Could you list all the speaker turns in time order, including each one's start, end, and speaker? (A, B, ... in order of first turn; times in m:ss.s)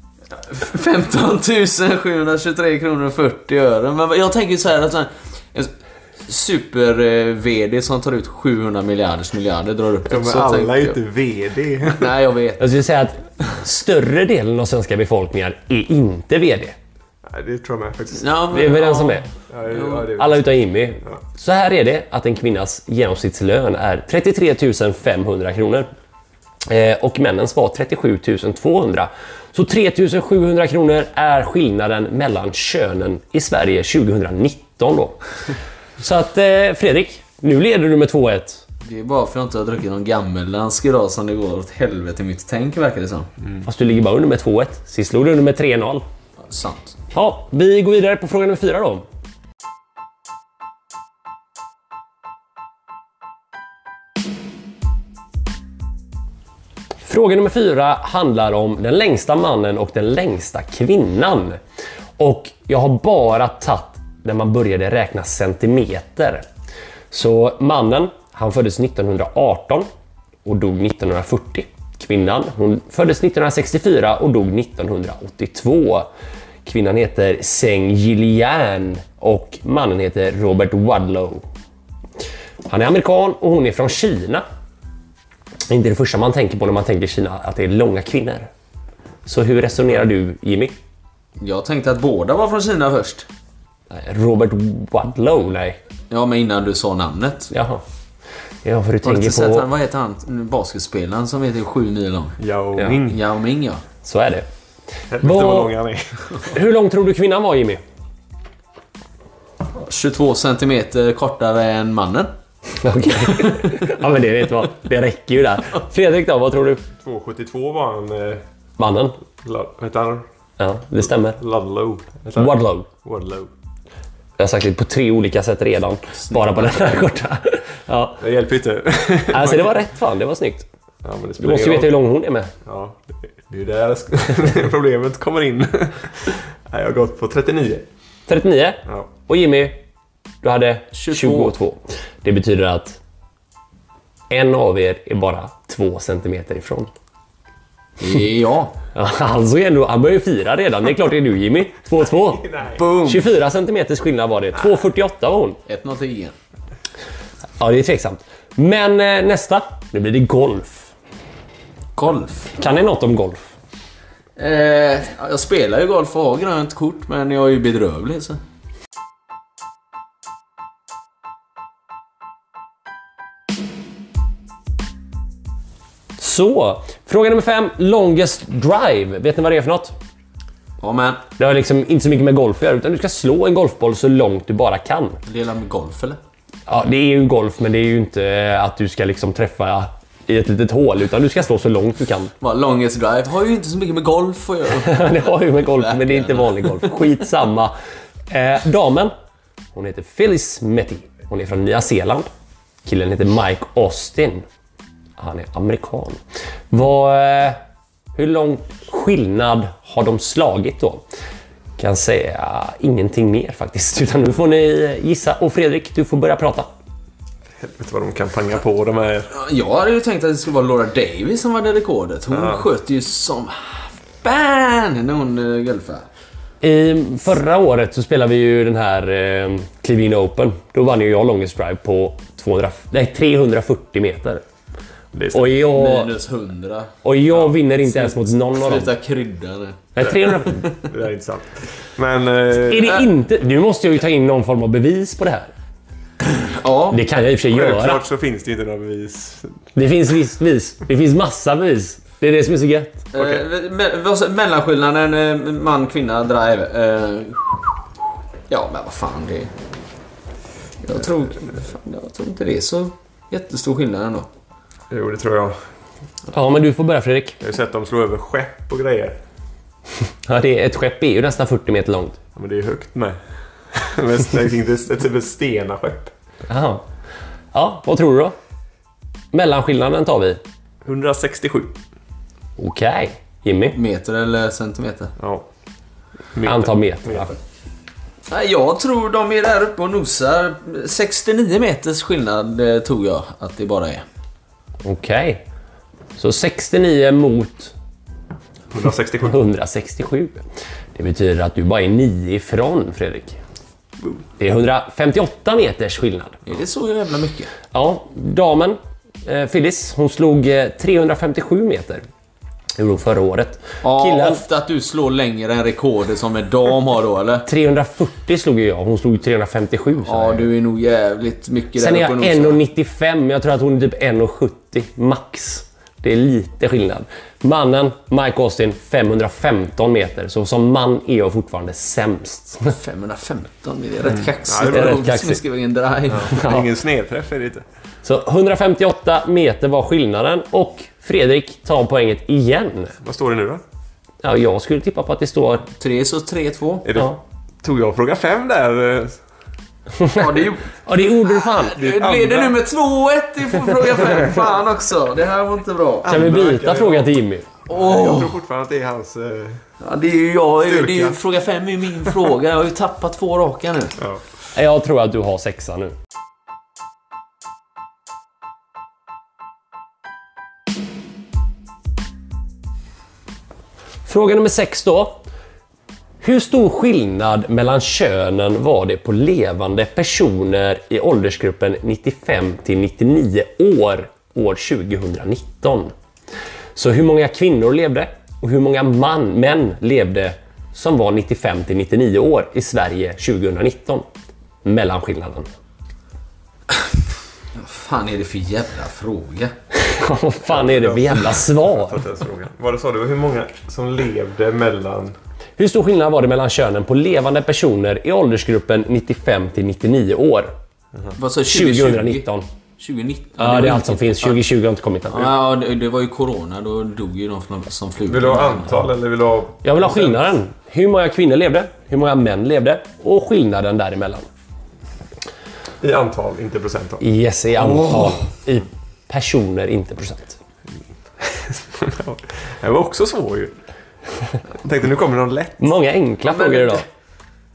0:00.3-0:05.7 A
0:06.3-0:11.0 A
0:10.1-0:12.1 B
0:11.9-0:12.7 A
0:12.6-0:16.8 C
0:17.2-0:18.4 B
0:18.1-0:20.1 A
0:18.5-0:19.2 C
0:19.5-0:20.5 B
0:20.1-0:25.9 C
0:26.6-0:35.2 C
0:36.0-0:38.6 C
0:38.8-0:43.3 A
0:43.6-0:46.0 C
0:46.4-0:47.0 A
0:47.1-0:49.0 C
0:57.0-1:01.6 C
1:02.2-1:06.4 C
1:07.1-1:09.9 C
1:10.4-1:16.1 C
1:16.6-1:21.4 C
1:22.6-1:24.4 C
1:25.7-1:28.5 C
1:29.2-1:30.7 C
1:31.4-1:33.3 A
1:33.9-1:35.8 C
1:36.1-1:37.5 A
1:37.5-1:37.8 C
1:38.6-1:39.7 C
1:39.0-1:42.4 A
1:42.4-1:43.2 B
1:43.0-1:43.8 A
1:44.0-1:44.5 C
1:45.1-1:46.5 B
1:45.2-1:45.7 C
1:46.5-1:47.8 C
1:49.8-1:52.3 A
1:52.8-1:56.8 C
1:57.0-1:58.4 B
1:58.8-1:59.2 C
1:59.4-2:00.2 B
2:00.6-2:01.4 C
2:01.4-2:03.5 B
2:02.4-2:02.9 C
2:04.4-2:08.2 C
2:06.2-2:06.9 A
2:08.2-2:09.8 B
2:09.3-2:10.6 C
2:11.0-2:11.9 B
2:11.4-2:12.5 C
2:12.6-2:17.9 B
2:18.3-2:19.8 C
2:20.4-2:23.0 C
2:20.9-2:21.5 A
2:24.3-2:26.9 C
2:28.0-2:28.8 A
2:28.9-2:32.4 C
2:32.3-2:32.8 B
2:32.7-2:33.2 A
2:33.0-2:35.6 C
2:35.7-2:36.3 A
2:37.6-2:40.9 C
2:42.0-2:42.5 A
2:42.5-2:43.4 C
2:44.4-2:48.4 A
2:56.2-2:59.9 C
3:00.8-3:01.2 A
3:01.4-3:05.2 C
3:05.2-3:06.2 A
3:06.7-3:12.3 C
3:12.4-3:16.9 A
3:14.8-3:17.7 C
3:18.3-3:19.1 C
3:19.7-3:22.3 C
3:22.8-3:24.4 C
3:25.2-3:27.6 C
3:28.1-3:31.0 C
3:31.8-3:36.7 C
3:37.6-3:39.3 B
3:39.3-3:46.1 A
3:42.3-3:42.6 B
3:46.6-3:54.4 C
3:55.1-3:55.5 B
3:55.3-3:56.1 C
3:55.6-3:56.9 A
3:57.0-3:58.9 C
3:57.9-4:00.8 A
4:00.0-4:00.7 C
4:00.8-4:03.0 B
4:02.5-4:05.5 C
4:06.2-4:07.0 A
4:06.9-4:08.0 C
4:07.5-4:09.6 B
4:09.7-4:13.1 C
4:13.1-4:17.6 A
4:18.5-4:19.5 A
4:20.8-4:24.3 A
4:24.9-4:25.6 B
4:26.3-4:27.4 C
4:27.4-4:29.2 B
4:30.2-4:32.2 C
4:32.4-4:33.2 B
4:33.7-4:36.1 B
4:36.5-4:36.8 C
4:37.5-4:38.4 C
4:39.3-4:40.4 C
4:40.8-4:41.7 B
4:42.6-4:43.8 C
4:43.7-4:45.1 A
4:45.2-4:45.5 B
4:46.3-4:47.3 B
4:46.4-4:47.3 C
4:48.3-4:54.0 A
4:54.8-4:55.4 C
4:56.2-4:57.7 C
4:58.7-4:59.4 B
4:59.2-5:00.4 C
5:00.9-5:03.4 C
5:04.4-5:06.4 C
5:06.4-5:07.5 A
5:07.7-5:12.0 C
5:12.8-5:14.4 C
5:13.8-5:17.5 A
5:17.4-5:20.5 C
5:20.0-5:22.6 A
5:21.8-5:32.8 C
5:32.7-5:36.6 A
5:34.4-5:35.0 B
5:34.7-5:35.4 C
5:36.1-5:37.6 B
5:36.3-5:36.6 C
5:38.0-5:42.9 C
5:43.0-5:43.6 B
5:44.2-5:45.7 C
5:45.8-5:46.9 A
5:46.8-5:49.2 B
5:50.0-5:51.9 C
5:50.1-5:50.7 A
5:51.3-5:56.2 A
5:51.8-5:52.6 B
5:56.0-5:57.1 B
5:56.0-5:57.5 C
5:57.7-5:58.4 A
5:57.7-5:59.6 B
5:59.8-6:04.0 A
6:00.6-6:01.2 B
6:04.5-6:06.0 C
6:14.0-6:15.2 C
6:16.2-6:25.9 C
6:26.7-6:34.0 C
6:34.6-6:35.5 C
6:37.5-6:39.5 A
6:39.7-6:42.0 C
6:40.5-6:45.2 B
6:45.6-6:50.5 C
6:51.2-6:52.2 A
6:51.4-6:52.5 C
6:52.8-6:54.4 A
6:53.4-6:55.3 C
6:55.1-6:58.9 A
6:58.1-7:00.2 B
6:59.6-7:04.3 C
7:05.8-7:07.0 B
7:07.0-7:10.4 C
7:07.7-7:08.0 B
7:11.2-7:13.5 B
7:14.6-7:15.7 B
7:15.6-7:16.8 C
7:16.2-7:16.8 A